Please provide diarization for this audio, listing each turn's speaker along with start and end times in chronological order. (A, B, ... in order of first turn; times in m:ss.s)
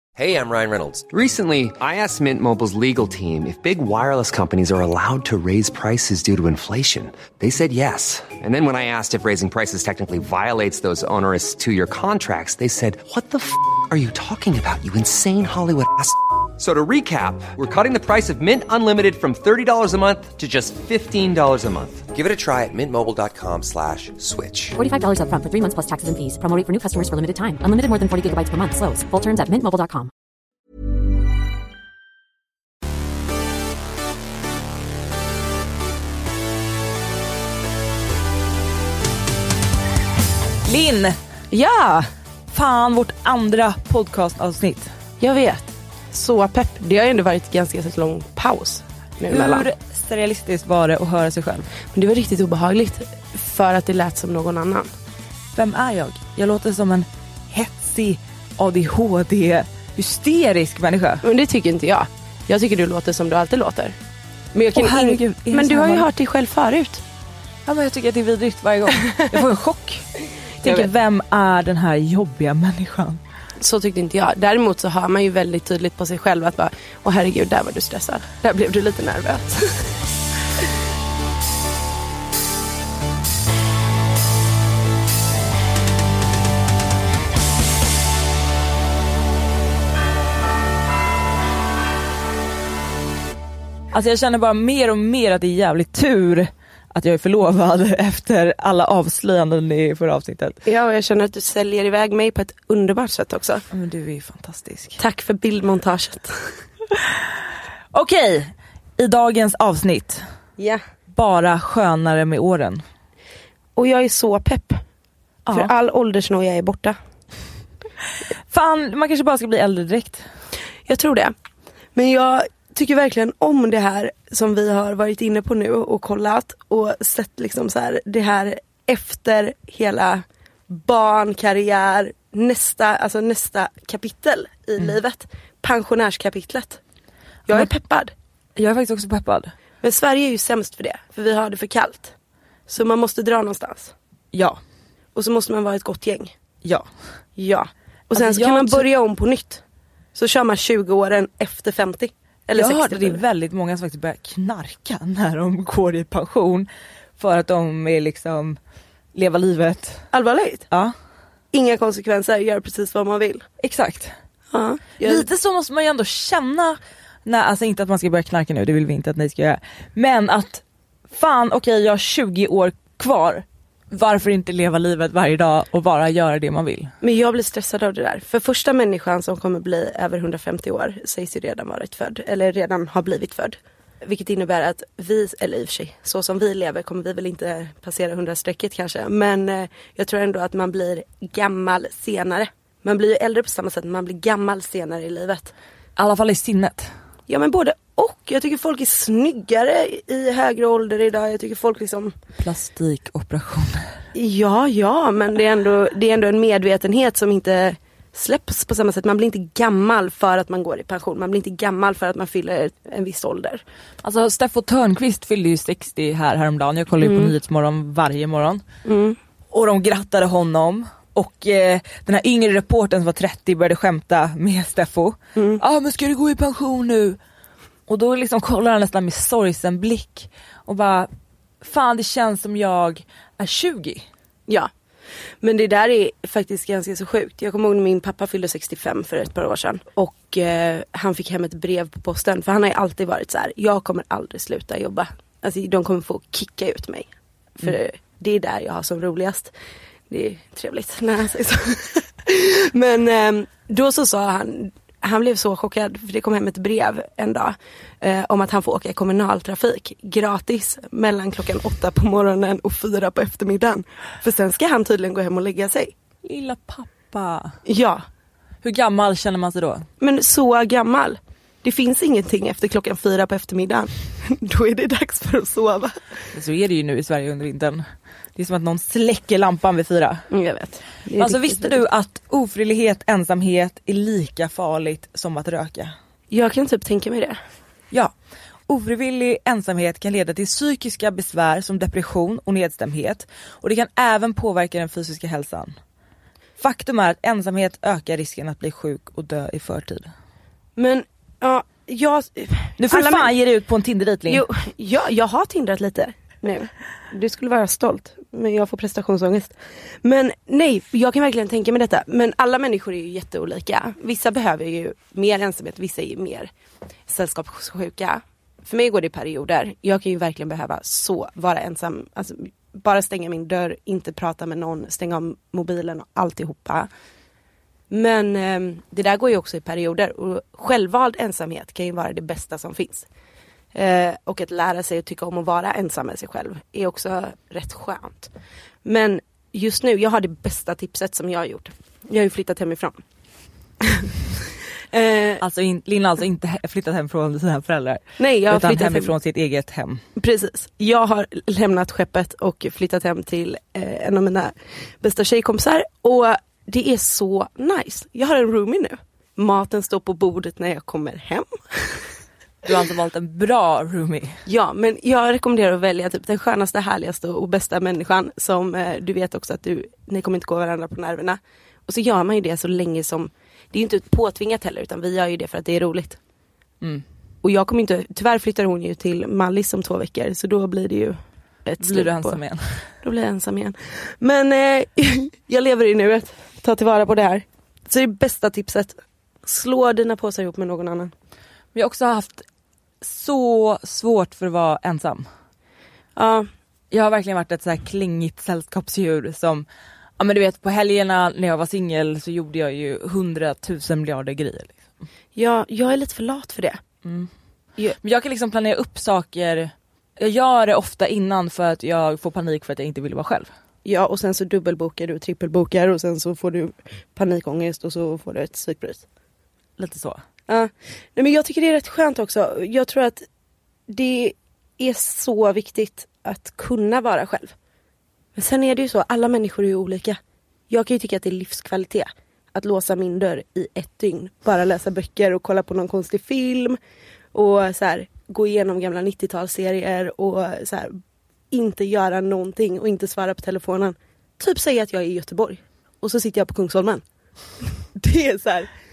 0:00.2-0:24.8 A
0:24.8-0:30.1 B
0:40.6-0:41.2 C
0:41.5-0:42.1 D
0:42.5-0:44.9 C
0:45.2-0:49.7 D
0:49.3-0:51.7 C
0:51.9-0:54.9 D
0:55.6-1:01.2 C
1:01.2-1:04.0 D
1:04.5-1:07.0 D
1:04.7-1:06.1 C
1:07.6-1:10.1 C
1:10.6-1:10.9 D
1:10.6-1:13.2 C
1:13.6-1:19.9 D
1:33.9-1:40.6 C
1:40.6-1:43.6 D
1:43.7-1:45.0 C
1:45.0-1:46.5 D
1:47.9-1:50.2 C
1:51.1-1:52.8 C
1:53.8-1:54.8 D
1:55.5-1:57.0 D
1:58.5-2:00.2 C
2:00.9-2:01.3 D
2:01.9-2:16.8 D
2:17.5-2:18.1 D
2:18.6-2:19.5 C
2:19.8-2:22.1 D
2:22.7-2:23.9 D
2:24.3-2:24.6 C
2:25.1-2:26.3 D
2:27.4-2:29.6 D
2:28.1-2:28.8 C
2:30.1-2:33.2 D
2:32.5-2:36.6 C
2:37.2-2:38.6 C
2:39.1-2:40.1 C
2:40.1-2:40.6 D
2:41.5-2:43.4 D
2:43.6-2:44.1 C
2:44.5-2:45.2 D
2:45.0-2:56.9 C
2:57.0-3:15.5 D
3:16.0-3:16.9 C
3:17.3-3:22.1 D
3:22.4-3:23.9 C
3:24.1-3:33.6 D
3:34.0-3:38.6 C
3:37.0-3:37.3 D
3:38.8-3:39.2 D
3:39.5-3:47.2 C
3:45.4-3:45.6 D
3:47.9-3:51.1 C
3:51.6-3:54.0 C
3:55.4-4:09.5 D
4:10.1-4:25.9 D
4:26.2-4:27.6 C
4:27.6-4:28.0 D
4:28.6-4:29.9 C
4:30.0-4:36.2 D
4:36.3-4:37.8 C
4:38.4-4:40.2 C
4:40.3-4:41.8 D
4:41.2-4:45.9 C
4:46.3-4:47.4 D
4:48.7-4:55.7 C
4:56.6-5:00.1 C
5:00.8-5:03.3 D
5:02.8-5:04.4 C
5:04.3-5:16.5 D
5:17.1-5:26.9 D
5:27.9-5:33.0 D
5:33.7-5:38.3 D
5:38.8-5:43.0 D
5:43.8-5:44.1 D
5:44.9-5:45.4 D
5:45.4-5:50.0 C
5:48.2-5:49.1 D
5:50.2-6:02.2 D
6:02.6-6:04.4 C
6:04.5-6:16.2 D
6:17.4-6:22.4 D
6:21.8-6:22.9 C
6:23.0-6:31.1 D
6:31.7-6:32.4 C
6:33.0-6:35.2 C
6:36.2-6:36.5 D
6:36.9-6:39.6 C
6:40.2-6:44.8 C
6:45.3-6:46.8 D
6:47.0-6:47.3 C
6:48.0-6:53.5 C
6:53.8-6:59.0 D
6:59.8-7:00.2 C
7:00.5-7:03.2 D
7:03.9-7:07.5 D
7:08.4-7:10.2 D
7:10.7-7:16.8 D
7:17.3-7:21.0 D
7:21.5-7:27.0 D
7:28.0-7:28.4 C
7:28.3-7:28.6 D